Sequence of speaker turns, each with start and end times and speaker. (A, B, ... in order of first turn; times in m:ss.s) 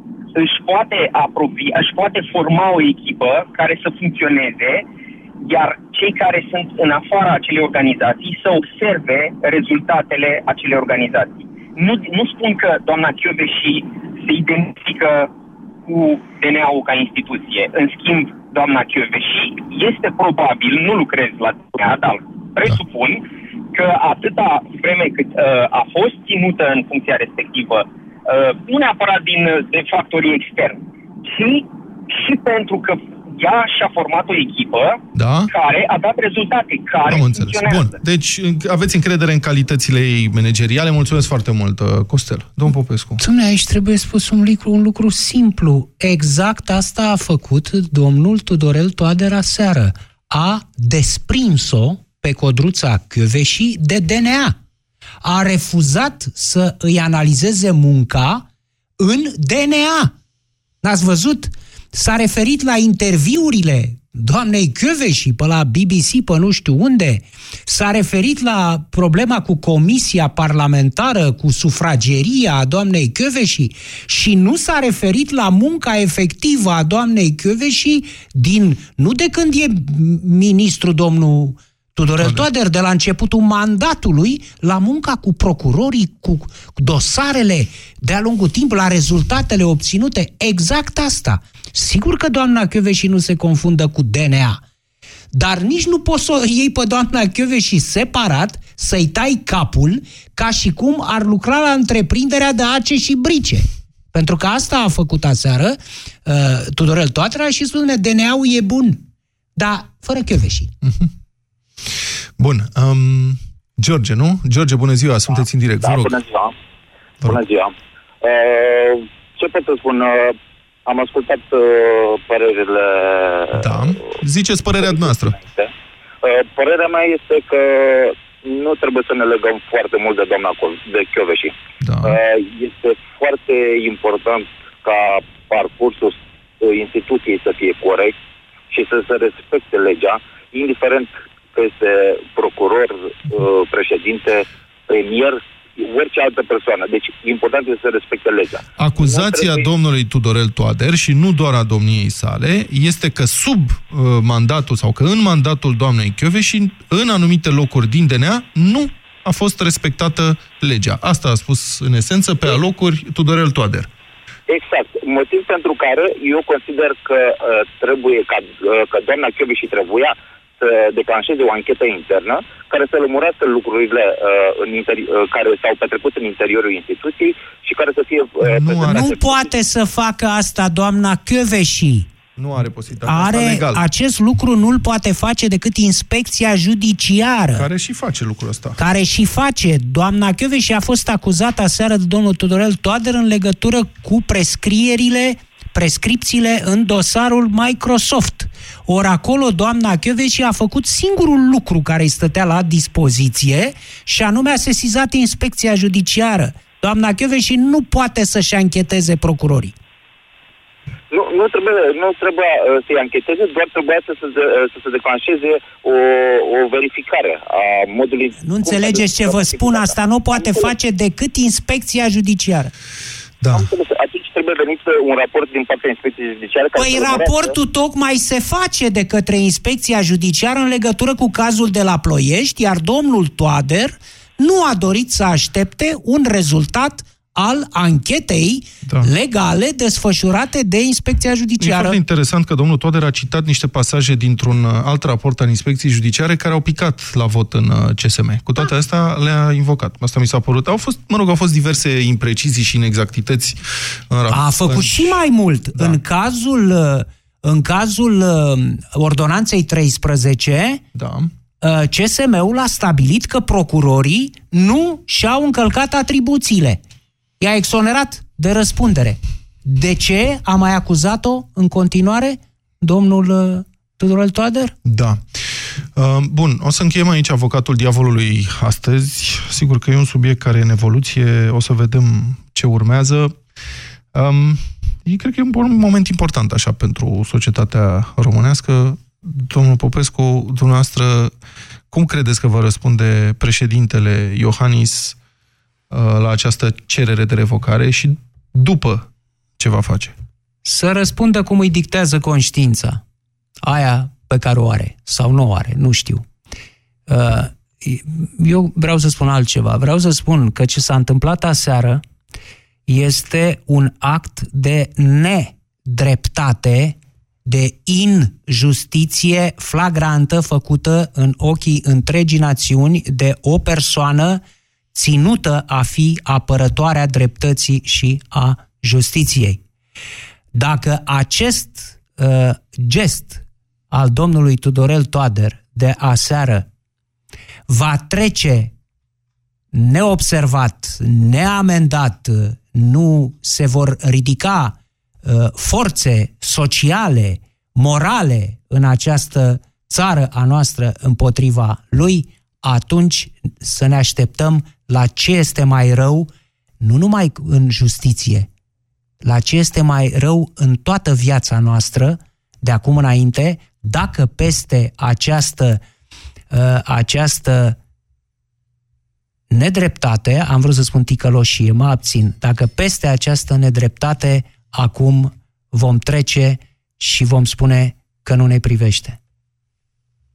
0:00.4-0:04.9 A
0:05.4-0:15.3 A
0:15.9-0:38.0 A
0:35.2-0:35.5 B
0:37.1-0:43.2 B
0:43.2-0:54.6 C
0:55.2-0:58.4 C
0:59.0-1:00.1 C
1:00.8-1:34.6 C
1:22.2-1:22.5 B
1:35.3-1:49.0 C
1:49.6-1:50.7 C
1:50.8-1:51.1 B
1:51.8-1:56.2 B
1:55.8-1:56.5 D
1:57.2-2:00.4 D
2:00.9-2:04.0 D
2:03.5-2:05.4 B
2:04.9-2:05.7 D
2:06.2-2:11.5 D
2:11.8-2:12.2 B
2:12.0-2:18.2 D
2:18.7-2:29.7 D
2:28.8-2:43.9 B
2:44.5-2:59.5 D
2:58.4-2:59.1 B
2:58.8-3:02.1 C
3:02.4-3:03.8 B
3:03.1-3:07.7 C
3:07.6-3:08.8 B
3:08.8-3:29.7 C
3:31.1-3:40.7 D
3:38.4-3:42.7 C
3:43.4-3:43.7 B
3:43.5-3:47.5 D
3:46.8-4:02.0 C
3:58.8-3:59.1 B
4:01.6-4:15.2 B
4:14.3-4:20.8 C
4:21.0-4:21.3 B
4:21.6-4:26.8 C
4:27.4-4:34.8 C
4:34.8-4:35.4 B
4:35.9-4:43.4 B
4:44.1-4:51.3 B
4:51.9-4:55.2 B
4:55.9-4:59.1 B
4:59.6-5:00.1 B
5:00.6-5:03.0 C
5:03.6-5:06.3 C
5:07.1-5:12.0 C
5:12.9-5:24.4 C
5:24.9-5:29.6 C
5:30.5-5:36.7 C
5:37.7-5:38.7 C
5:39.7-5:56.3 C
5:56.8-5:58.5 C
5:59.2-6:05.8 C
6:06.5-6:07.8 C
6:09.5-6:19.2 C